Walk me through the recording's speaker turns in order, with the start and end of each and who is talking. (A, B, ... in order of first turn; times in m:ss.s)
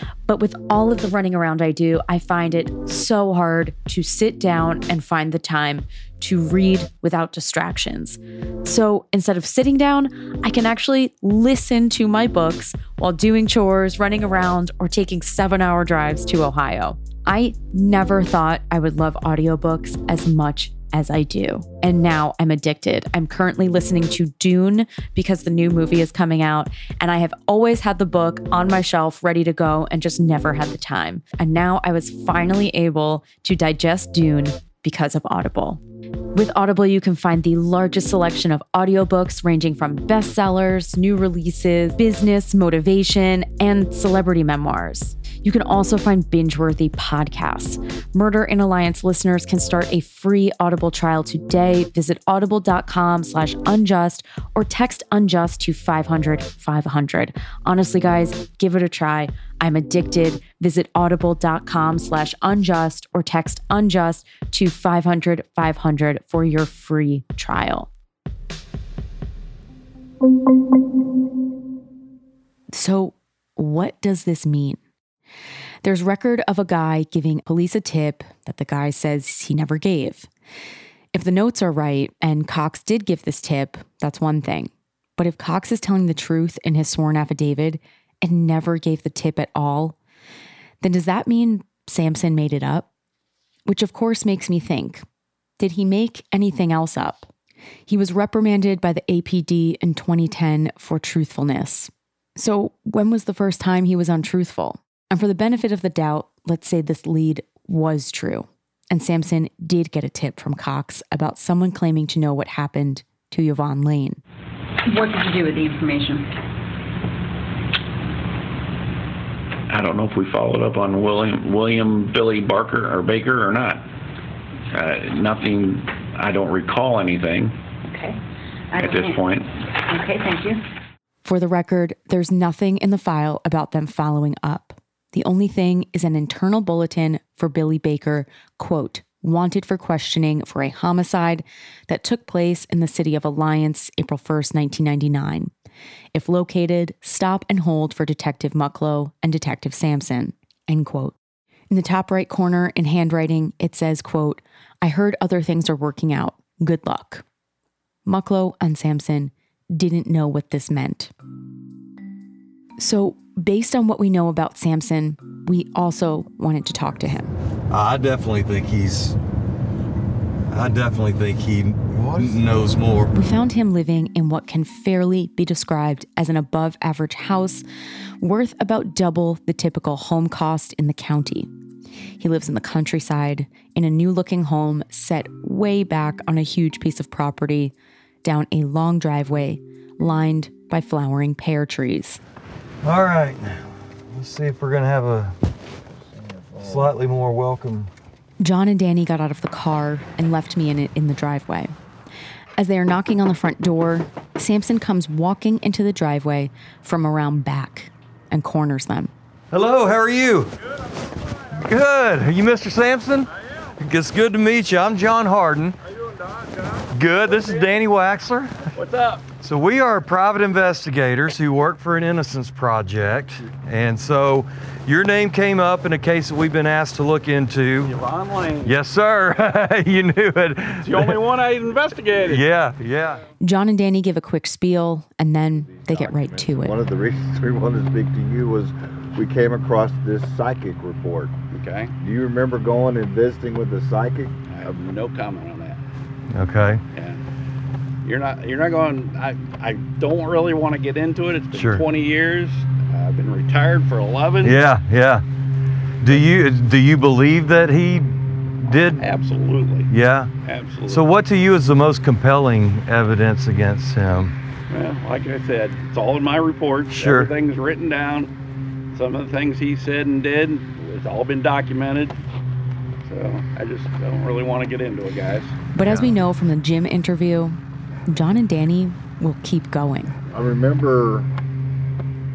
0:00.3-0:35.8 A
0:36.3-1:07.9 A
1:12.7-1:14.8 A
1:15.8-1:20.3 A
1:21.1-1:30.0 A
1:30.8-1:32.9 A
1:33.6-1:35.0 A
1:35.6-1:37.3 A
1:37.9-1:54.2 A
1:54.8-1:56.3 B
1:59.7-2:03.8 C
2:04.7-2:07.5 C
2:07.8-2:08.2 B
2:08.7-2:09.2 B
2:08.8-2:09.5 C
2:09.9-2:10.6 B
2:11.2-2:25.5 A
2:26.1-2:31.1 A
2:31.7-2:37.2 A
2:38.0-2:41.1 A
2:42.8-2:47.3 A
2:47.7-2:49.2 D
2:50.5-2:53.1 D
2:51.9-2:52.4 E
2:53.1-2:57.6 A
2:58.2-3:01.5 A
3:02.2-3:12.2 A
3:12.8-3:15.3 D
3:16.1-3:16.9 E
3:16.6-3:17.9 D
3:18.4-3:21.7 A
3:22.6-3:29.1 A
3:29.5-3:30.5 D
3:31.5-3:35.8 D
3:36.4-3:37.7 F
3:36.9-3:38.6 D
3:38.7-3:39.2 F
3:39.4-3:47.9 D
3:47.8-3:48.8 F
3:48.6-3:51.2 D
3:50.8-3:52.4 F
3:52.2-3:53.2 D
3:53.4-3:56.8 A
3:55.6-4:01.3 E
4:01.5-4:01.9 F
4:02.0-4:04.3 E
4:04.5-4:05.8 F
4:06.3-4:06.8 D
4:06.9-4:07.2 F
4:08.0-4:14.6 F
4:11.5-4:11.8 D
4:14.4-4:15.2 D
4:16.0-4:19.0 D
4:18.8-4:19.9 F
4:19.9-4:20.3 D
4:20.4-4:21.0 F
4:20.9-4:24.3 D
4:24.7-4:28.3 F
4:26.9-4:27.3 D
4:28.9-4:32.2 F
4:33.0-4:35.9 F
4:35.7-4:40.2 A
4:40.3-4:41.3 E